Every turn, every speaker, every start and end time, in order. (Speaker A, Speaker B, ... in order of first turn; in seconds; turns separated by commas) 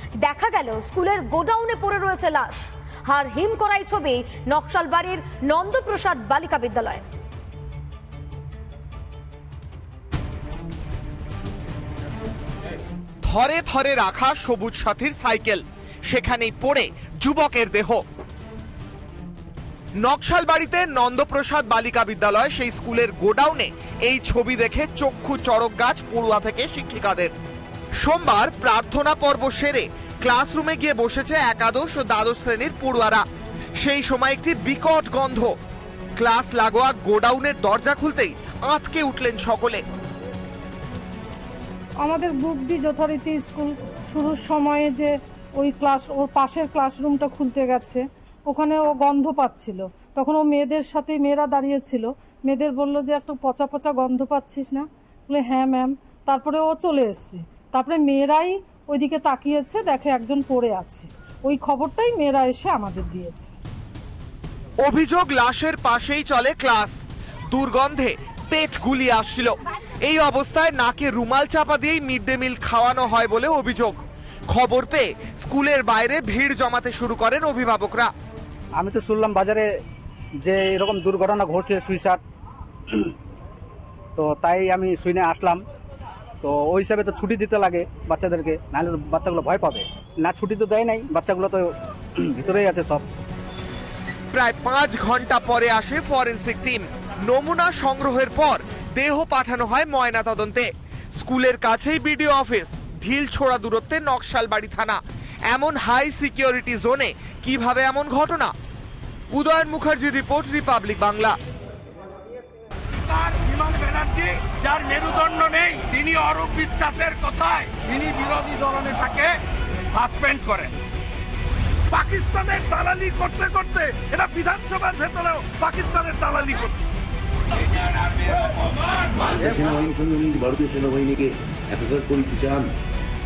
Speaker A: 0.2-7.0, Speaker B: 13.2-18.0, Speaker B: 20.0-27.3, Speaker B: 28.0-33.2, Speaker B: 33.8-35.5, Speaker B: 36.2-39.8, Speaker C: 42.0-63.5, Speaker B: 64.8-67.0, Speaker B: 67.5-78.1, Speaker D: 78.8-79.6, Speaker D: 80.4-82.2, Speaker D: 84.2-85.6, Speaker D: 86.4-93.0, Speaker B: 94.3-100.7, Speaker B: 101.2-105.0, Speaker B: 105.5-108.5, Speaker B: 109.3-111.3, Speaker E: 113.0-119.4, Speaker E: 119.9-120.8, Speaker E: 121.9-126.7, Speaker F: 129.1-132.7